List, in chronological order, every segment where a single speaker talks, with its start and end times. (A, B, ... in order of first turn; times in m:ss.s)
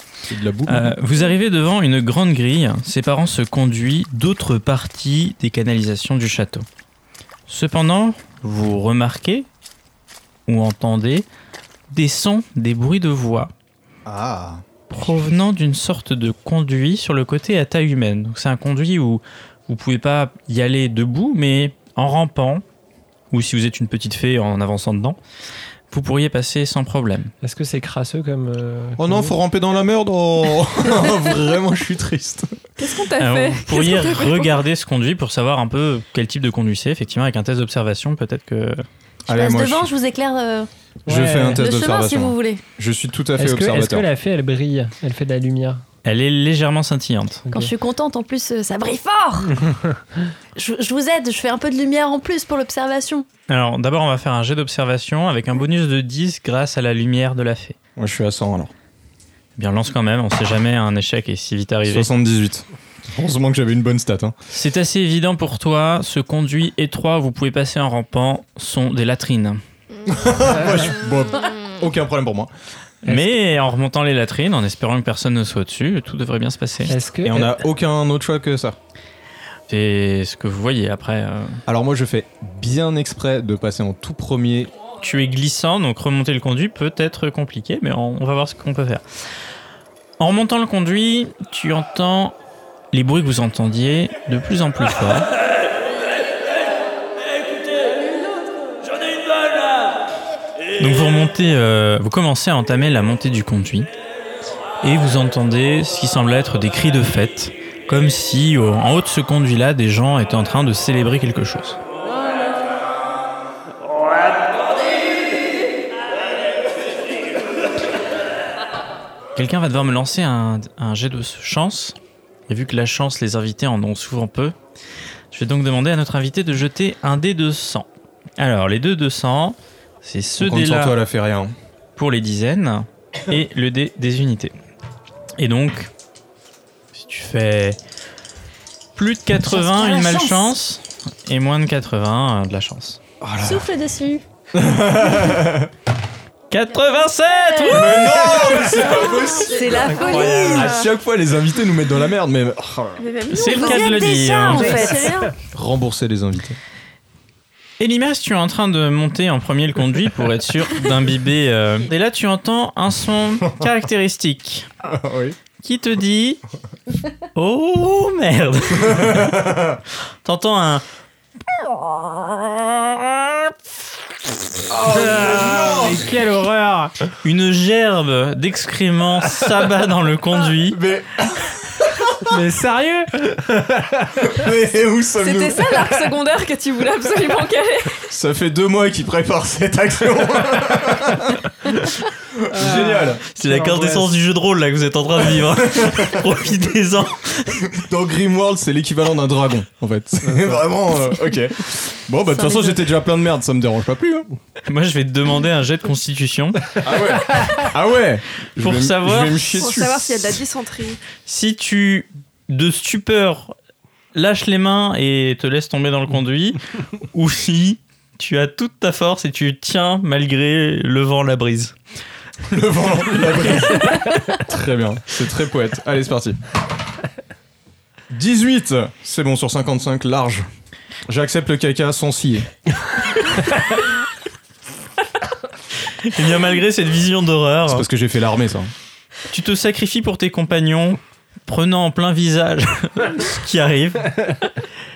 0:00.2-0:01.0 A
0:00.7-0:06.6 B
0:07.5-0:09.5 B
0:10.5-0:11.3 B
0:11.9-0:13.5 B
0:14.0-0:14.6 A
0:14.9-0:22.6 B
0:23.3-0:25.2 B
0:25.9-0:27.3 B
0:27.4-0:29.3 C
0:29.0-0:32.6 A
0:32.8-0:34.6 D
0:33.2-0:38.8 B
0:39.3-0:39.9 A
0:39.3-0:40.7 E
0:41.1-0:41.6 C
0:41.1-0:44.0 A
0:41.5-0:42.6 E
0:43.4-0:45.8 C
0:46.0-0:47.4 B
0:47.4-0:47.7 C
0:47.5-0:49.6 E
0:50.5-0:53.3 E
0:53.5-0:57.8 B
0:58.0-0:58.7 A
0:59.6-1:02.1 B
1:01.8-1:04.3 A
1:04.5-1:09.6 B
1:10.1-1:12.5 A
1:13.0-1:16.9 B
1:13.0-1:13.3 C
1:16.9-1:17.6 C
1:17.2-1:18.8 A
1:19.7-1:21.6 B
1:21.7-1:24.7 A
1:25.0-1:29.0 B
1:30.2-1:32.3 B
1:32.9-1:35.3 B
1:40.8-1:43.9 B
1:44.8-1:51.8 B
1:59.4-2:02.0 B
2:02.5-2:04.5 B
2:05.3-2:07.9 B
2:08.4-2:11.0 B
2:10.4-2:11.5 A
2:12.0-2:14.5 B
2:15.4-2:15.9 B
2:16.9-2:17.8 B
2:19.0-2:23.0 B
2:19.4-2:20.5 E
2:23.2-2:23.7 A
2:23.4-2:24.2 E
2:24.5-2:25.7 A
2:26.5-2:28.4 B
2:27.4-2:30.8 E
2:27.6-2:33.0 A
2:28.4-2:30.9 D
2:33.0-2:35.3 D
2:33.3-2:35.0 B
2:33.3-2:35.3 E
2:35.4-2:36.6 A
2:37.8-2:44.7 B
2:44.8-2:45.4 A
2:45.6-2:46.4 B
2:47.3-2:49.4 B
2:48.8-2:49.8 A
2:50.2-2:50.8 B
2:51.6-2:53.5 B
2:54.7-2:56.0 A
2:54.8-2:56.9 C
2:57.2-3:00.8 B
3:00.7-3:02.2 A
3:02.2-3:04.4 C
3:04.2-3:05.9 A
3:05.2-3:08.0 D
3:08.0-3:13.2 A
3:12.5-3:14.1 C
3:13.3-3:17.7 B
3:15.4-3:16.2 A
3:17.6-3:24.3 A
3:22.4-3:22.7 E
3:24.6-3:26.8 B
3:26.8-3:30.4 A
3:28.6-3:29.7 B
3:29.6-3:31.0 D
3:31.2-3:33.5 B
3:34.1-3:36.6 B
3:37.1-3:41.7 B
3:42.5-3:46.4 A
3:48.1-3:50.5 A
3:51.1-3:52.5 A
3:55.9-3:57.8 B
3:57.7-3:58.7 A
3:59.3-4:04.6 B